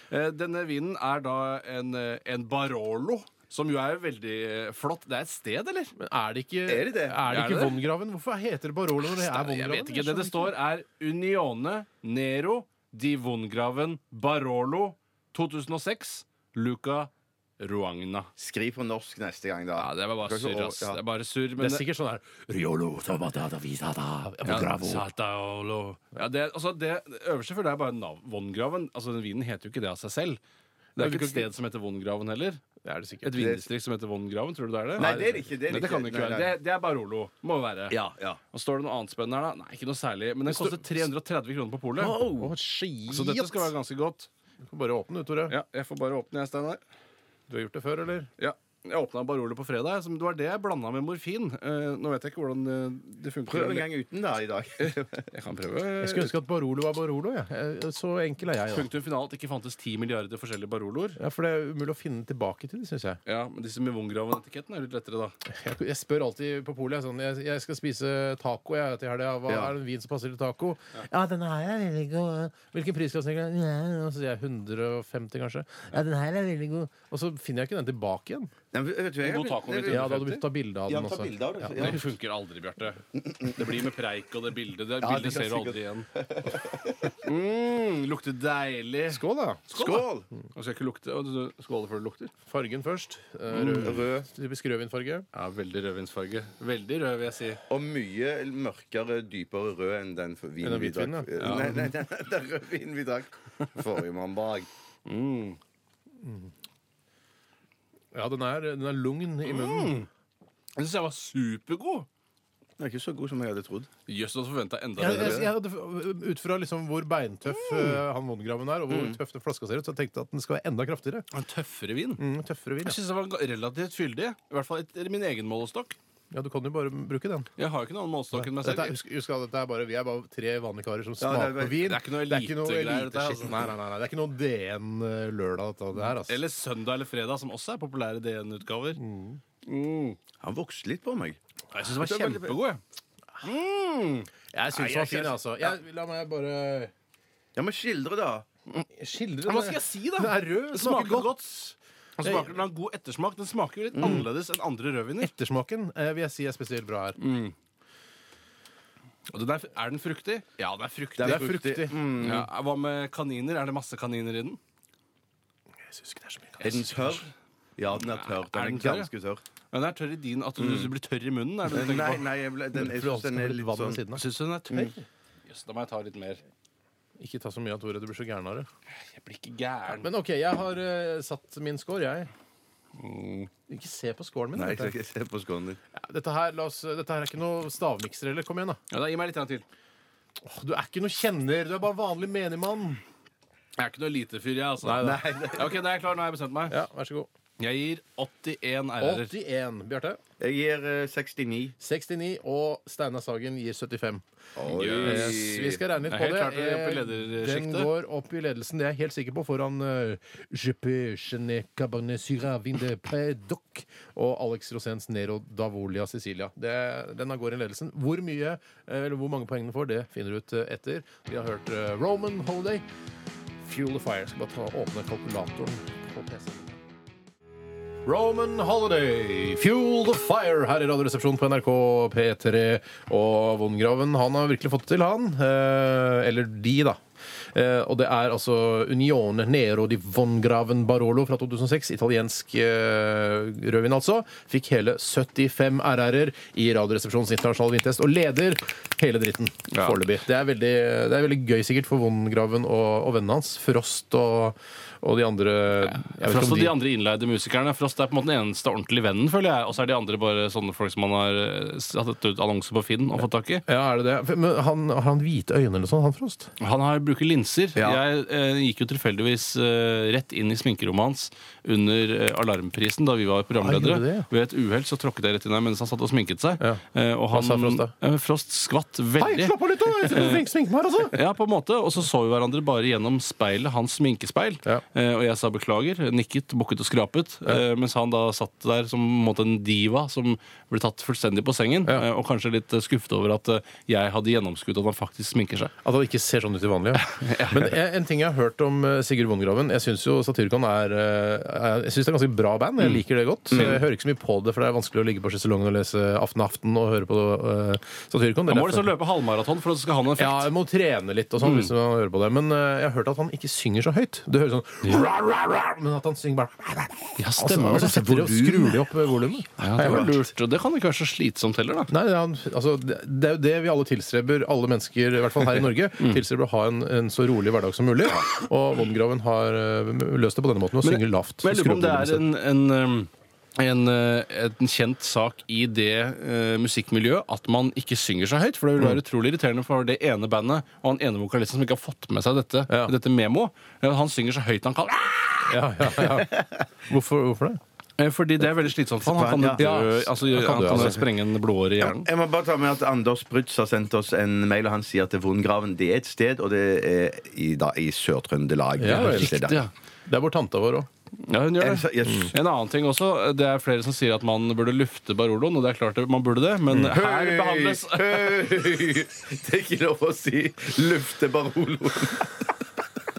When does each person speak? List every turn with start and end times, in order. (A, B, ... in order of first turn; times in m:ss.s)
0:00.1-0:05.9 A
0:06.0-0:10.6 B
0:06.7-0:07.2 C
0:07.3-0:07.8 A
0:09.0-0:18.3 A
0:18.4-0:21.0 C
0:19.8-0:21.8 A
0:21.6-0:25.0 B
0:24.4-0:30.4 A
0:31.0-0:32.6 A
0:31.0-0:31.5 B
0:32.8-0:33.4 B
0:33.2-0:38.0 A
0:33.4-0:33.7 C
0:35.0-0:36.5 C
0:35.0-0:35.5 B
0:37.9-0:38.4 C
0:38.5-0:42.3 A
0:40.5-0:41.1 B
0:42.0-0:42.5 C
0:42.3-0:43.7 B
0:43.1-0:44.3 A
0:44.7-0:45.6 B
0:45.5-0:46.8 A
0:47.5-0:48.3 B
0:48.4-0:53.9 A
0:53.5-0:55.3 C
0:54.8-0:56.4 A
0:56.0-0:58.9 B
0:58.7-1:01.2 A
1:01.2-1:03.2 B
1:03.3-1:05.4 A
1:05.5-1:18.5 B
1:09.5-1:09.8 C
1:18.7-1:20.1 C
1:19.2-1:20.4 A
1:19.9-1:22.0 B
1:20.9-1:22.1 C
1:21.7-1:26.1 A
1:23.2-1:23.7 C
1:25.0-1:27.1 C
1:27.1-1:32.3 A
1:29.1-1:29.6 B
1:29.7-1:30.3 C
1:32.5-1:35.3 B
1:33.5-1:34.3 C
1:35.3-1:37.6 A
1:37.7-1:44.7 C
1:40.6-1:41.9 B
1:41.4-1:41.9 A
1:45.1-1:45.6 A
1:46.2-1:46.5 B
1:48.1-1:50.0 B
1:49.4-1:50.1 A
1:50.8-1:52.1 A
1:52.8-1:53.9 C
1:54.1-1:55.5 A
1:55.0-2:01.3 B
1:55.0-1:55.5 C
1:58.9-1:59.2 C
2:01.3-2:02.2 A
2:02.2-2:03.0 B
2:02.8-2:06.0 A
2:06.3-2:07.5 B
2:07.6-2:09.0 A
2:08.3-2:16.4 B
2:11.2-2:11.8 C
2:11.8-2:13.7 A
2:16.0-2:19.0 A
2:19.0-2:19.4 B
2:19.7-2:20.2 A
2:20.4-2:21.4 C
2:21.7-2:22.8 A
2:22.0-2:22.6 C
2:23.4-2:25.7 A
2:24.5-2:26.9 B
2:27.6-2:28.5 C
2:28.8-2:31.3 B
2:29.5-2:35.3 A
2:32.2-2:32.5 B
2:33.9-2:34.3 C
2:34.0-2:34.3 B
2:35.2-2:37.2 B
2:37.2-2:37.5 A
2:39.3-2:41.6 A
2:41.2-2:42.5 C
2:41.2-2:41.9 B
2:42.2-2:44.6 A
2:45.9-2:46.7 B
2:46.6-2:47.2 A
2:46.6-2:49.4 C
2:47.9-2:49.1 A
2:49.7-2:52.3 A
2:50.6-2:50.9 C
2:51.7-2:54.0 C
2:52.7-2:54.2 B
2:54.1-2:56.4 A
2:57.2-2:58.7 B
2:59.0-3:00.1 A
2:59.9-3:02.3 B
3:03.0-3:03.5 A
3:03.7-3:05.0 B
3:04.6-3:05.8 C
3:05.9-3:08.8 B
3:08.9-3:09.6 A
3:10.4-3:13.0 B
3:13.8-3:16.8 A
3:14.8-3:15.2 B
3:15.0-3:15.8 C
3:16.7-3:17.3 B
3:17.6-3:19.3 A
3:19.0-3:20.2 B
3:20.4-3:21.8 C
3:21.8-3:24.2 B
3:24.6-3:25.8 C
3:24.7-3:27.9 A
3:25.0-3:42.8 B
3:43.6-3:46.8 B
3:48.1-3:57.0 B
3:57.5-4:16.8 B
4:09.7-4:10.0 A
4:15.9-4:23.6 A
4:23.7-4:26.5 B
4:26.6-4:40.5 A
4:27.8-4:28.0 C
4:33.6-4:34.3 B
4:36.6-4:37.9 B
4:39.2-4:41.2 B
4:41.1-4:55.7 A
4:55.8-5:08.9 B
4:57.0-4:57.8 A
5:03.5-5:03.8 A
5:08.5-5:10.5 A
5:10.2-5:20.3 B
5:11.4-5:11.7 A
5:17.2-5:18.7 A
5:17.6-5:18.8 C
5:19.6-5:21.9 A
5:19.7-5:20.2 C
5:21.9-5:32.2 B
5:30.8-5:46.1 A
5:42.7-5:42.9 B
5:45.4-5:47.6 B
5:48.0-5:52.1 A
5:49.0-5:49.7 C
5:49.6-5:51.0 B
5:51.8-5:59.7 C
5:58.8-5:59.4 B
5:58.8-5:59.7 A
6:00.1-6:00.9 B
6:01.3-6:08.5 A
6:01.6-6:02.4 C
6:06.9-6:12.5 C